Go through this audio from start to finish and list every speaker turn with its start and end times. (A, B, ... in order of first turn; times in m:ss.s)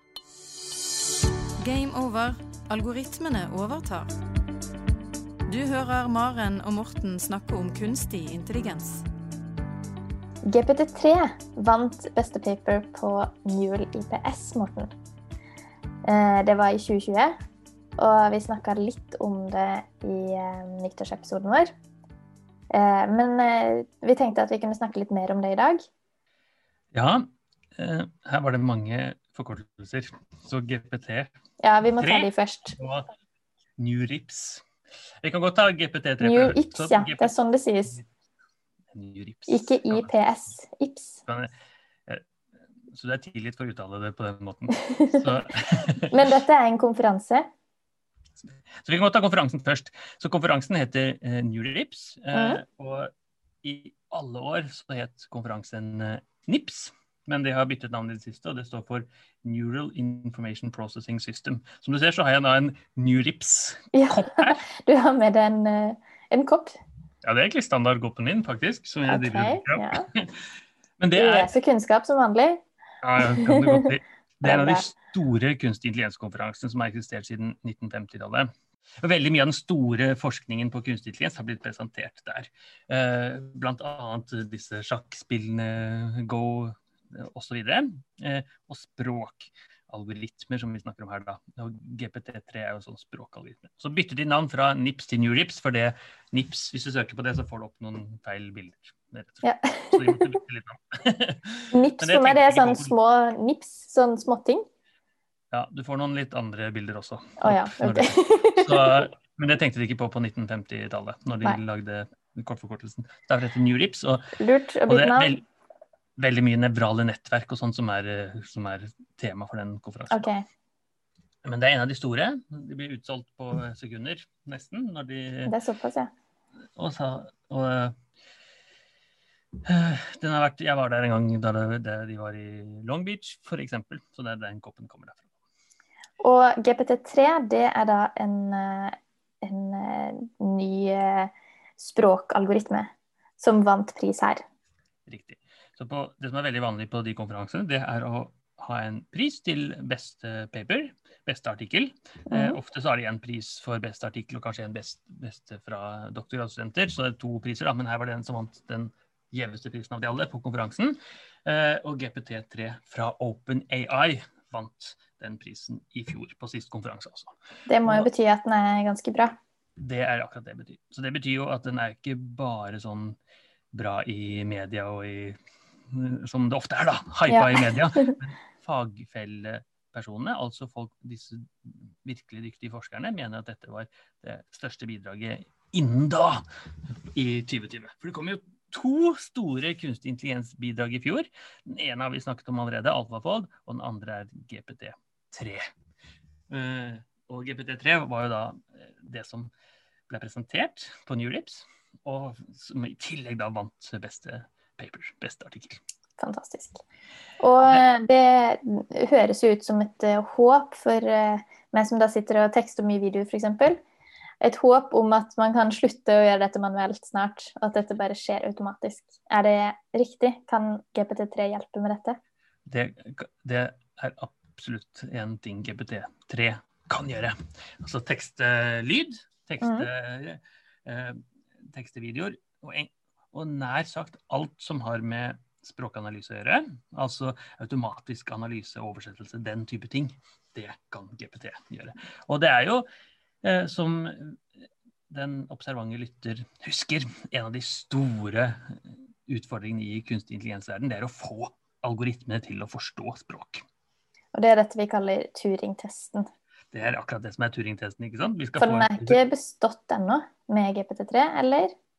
0:01.6-0:04.1 A
0:05.5-0:09.1 A
0:10.4-0:14.9 B
0:16.0-0:17.3 B
0:18.0-0:21.7 B
0:22.7-0:25.9 B
0:26.9-0:31.3 C
0:31.6-0:32.8 B
0:32.0-0:33.1 C
0:33.8-0:34.6 C
0:35.2-0:37.3 C
0:36.2-0:38.0 B
0:38.9-0:40.1 C
0:39.5-0:41.2 B
0:41.3-0:41.5 C
0:42.9-0:46.2 C
0:44.8-0:45.2 B
0:46.1-0:47.5 B
0:48.4-0:53.1 C
0:52.3-0:52.6 B
0:53.6-1:04.6 C
1:03.9-1:06.8 B
1:07.2-1:11.5 C
1:09.1-1:10.1 B
1:11.2-1:12.6 B
1:13.0-1:42.9 C
1:13.2-1:13.9 B
1:14.4-1:14.9 B
1:39.4-1:40.3 B
1:41.7-1:44.6 B
1:45.5-1:54.3 C
1:47.4-1:49.1 B
1:54.4-1:55.3 B
1:54.9-1:55.4 C
1:56.2-2:00.3 C
2:00.1-2:00.4 B
2:01.4-2:05.5 C
2:05.5-2:06.1 B
2:06.8-2:08.0 C
2:09.7-2:15.3 C
2:16.2-2:24.4 B
2:25.1-2:48.1 C
2:32.3-2:32.6 B
2:47.7-2:49.4 B
2:49.8-2:53.2 C
2:53.7-3:15.7 C
2:57.3-2:58.2 B
3:16.5-3:19.5 C
3:20.1-3:25.8 C
3:26.2-3:26.8 B
3:27.4-3:33.8 B
3:34.4-3:42.2 B
3:42.7-4:02.9 C
3:49.6-3:49.9 B
4:03.4-4:04.4 C
4:05.1-4:13.6 C
4:14.3-4:16.3 B
4:16.7-4:19.2 C
4:18.6-4:21.8 B